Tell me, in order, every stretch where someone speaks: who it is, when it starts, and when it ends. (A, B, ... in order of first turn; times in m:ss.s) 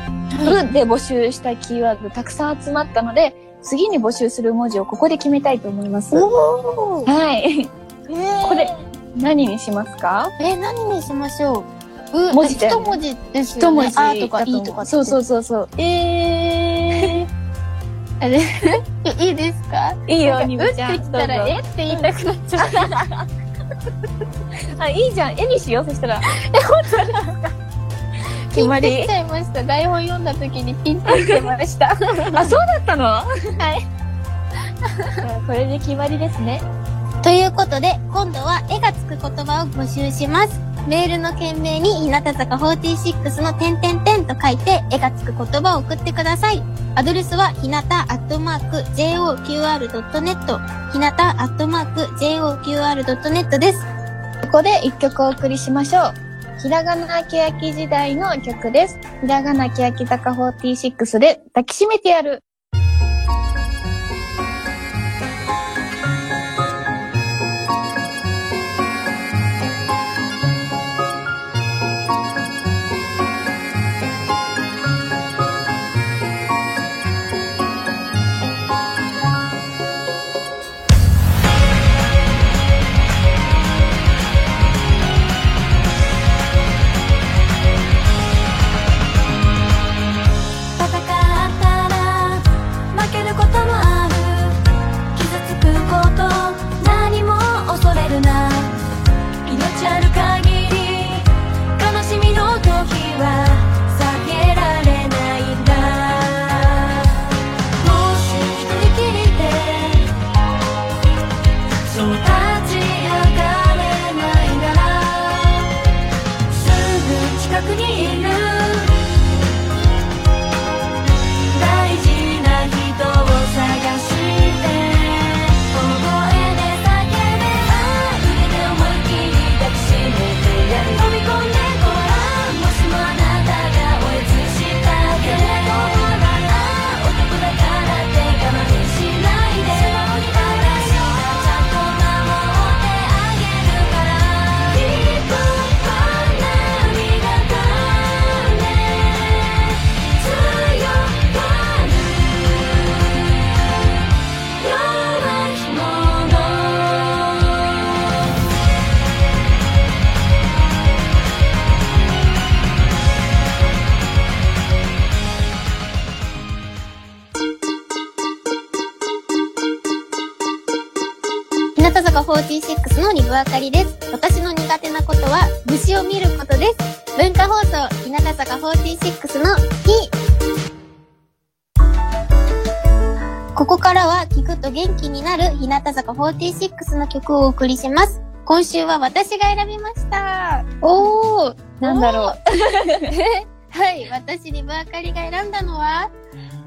0:00.3-0:00.6 A
0:00.4-0:06.2 B
0:06.1-0:07.1 A
0:07.1-0:07.7 B
0:08.1-0:08.8 A
0:08.4-0:10.3 B
0:10.4-0:15.2 A
0:12.3-0:13.0 B
0:13.5-0:15.7 B
0:15.8-0:17.3 A
0:18.2-0:23.0 A
0:20.1-0:23.2 B
0:24.8-0:26.3 B
0:26.3-0:27.5 A
0:28.5-0:29.1 B
0:28.5-0:32.6 A
0:31.1-0:31.5 B
0:32.3-0:33.5 B
0:33.6-0:33.8 A
0:34.8-0:35.2 A
0:35.2-0:36.6 B
0:37.2-0:53.9 A
0:54.4-1:02.4 B
1:30.8-1:34.6 C
1:35.1-1:38.8 C
1:39.4-1:47.2 C
1:47.8-1:50.1 C
1:51.8-1:55.7 C
1:56.5-1:58.9 C
2:01.4-2:33.2 C
2:34.6-2:37.8 C
2:51.8-3:00.1 A
3:03.6-3:10.7 A
3:10.8-3:13.1 B
3:11.8-3:16.1 A